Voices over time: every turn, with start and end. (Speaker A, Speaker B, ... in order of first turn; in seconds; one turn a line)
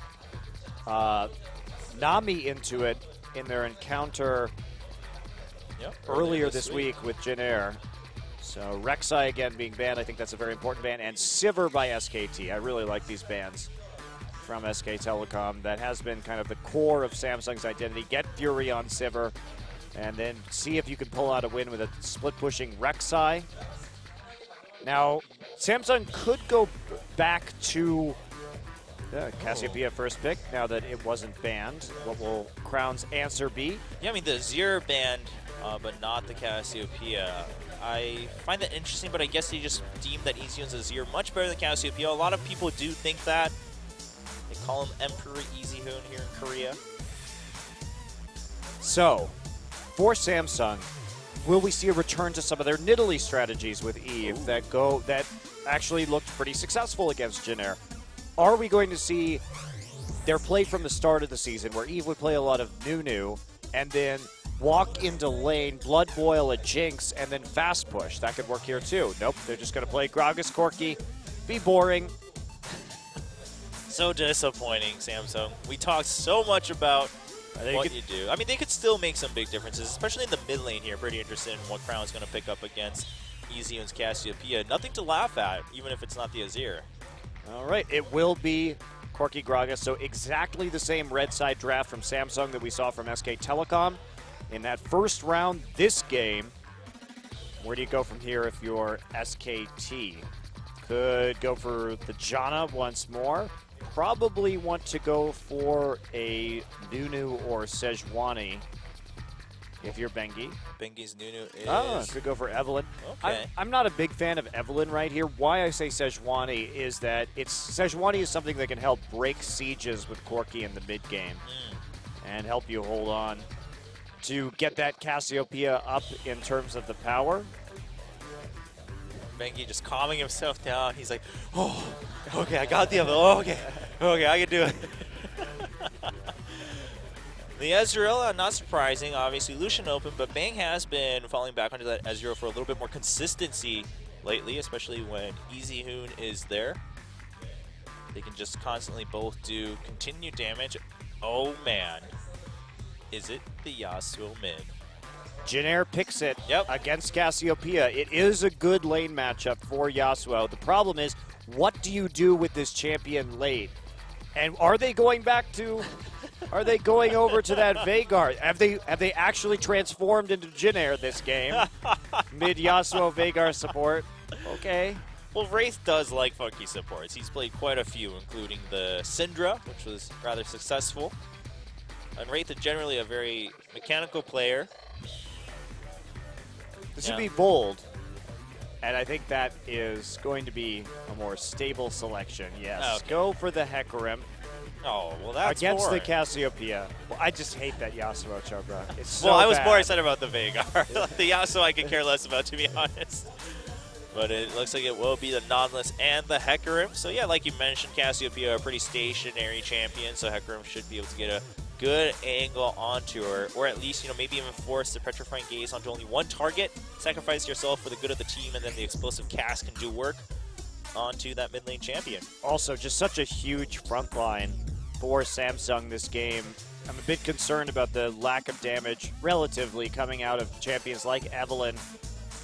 Speaker A: 0.9-1.3
Speaker A: 1.9-4.5
Speaker B: 5.8-6.9
Speaker A: 6.1-7.8
Speaker A: 8.4-13.7
Speaker A: 14.4-19.4
Speaker A: 19.9-23.5
Speaker A: 24.8-28.2
Speaker A: 29.1-33.8
Speaker B: 29.4-29.8
Speaker B: 34.0-43.5
Speaker B: 44.5-46.8
Speaker A: 48.8-49.4
Speaker A: 49.9-57.8
Speaker B: 54.2-54.5
Speaker A: 58.4-59.4
Speaker A: 60.2-72.2
Speaker B: 73.9-77.1
Speaker A: 77.6-78.0
Speaker B: 77.7-86.9
Speaker A: 87.5-96.6
Speaker A: 97.6-100.3
Speaker A: 100.8-108.7
Speaker A: 109.8-110.6
Speaker B: 110.8-112.2
Speaker A: 111.7-121.4
Speaker B: 113.0-113.5
Speaker B: 121.4-121.8
Speaker A: 122.2-123.5
Speaker A: 124.2-127.5
Speaker B: 129.3-136.8
Speaker B: 137.5-146.8
Speaker B: 148.1-152.1
Speaker B: 153.1-154.7
Speaker A: 155.4-163.8
Speaker A: 164.3-165.9
Speaker A: 166.5-171.7
Speaker B: 167.3-167.7
Speaker B: 171.5-173.1
Speaker A: 172.3-175.0
Speaker B: 175.3-181.2
Speaker B: 182.2-184.7
Speaker A: 187.0-187.9
Speaker B: 187.0-187.3
Speaker A: 188.8-194.3
Speaker B: 192.8-193.2
Speaker B: 194.8-196.2
Speaker A: 195.4-199.9
Speaker B: 199.2-203.4
Speaker B: 204.1-220.3
Speaker B: 220.9-222.3
Speaker A: 222.4-231.8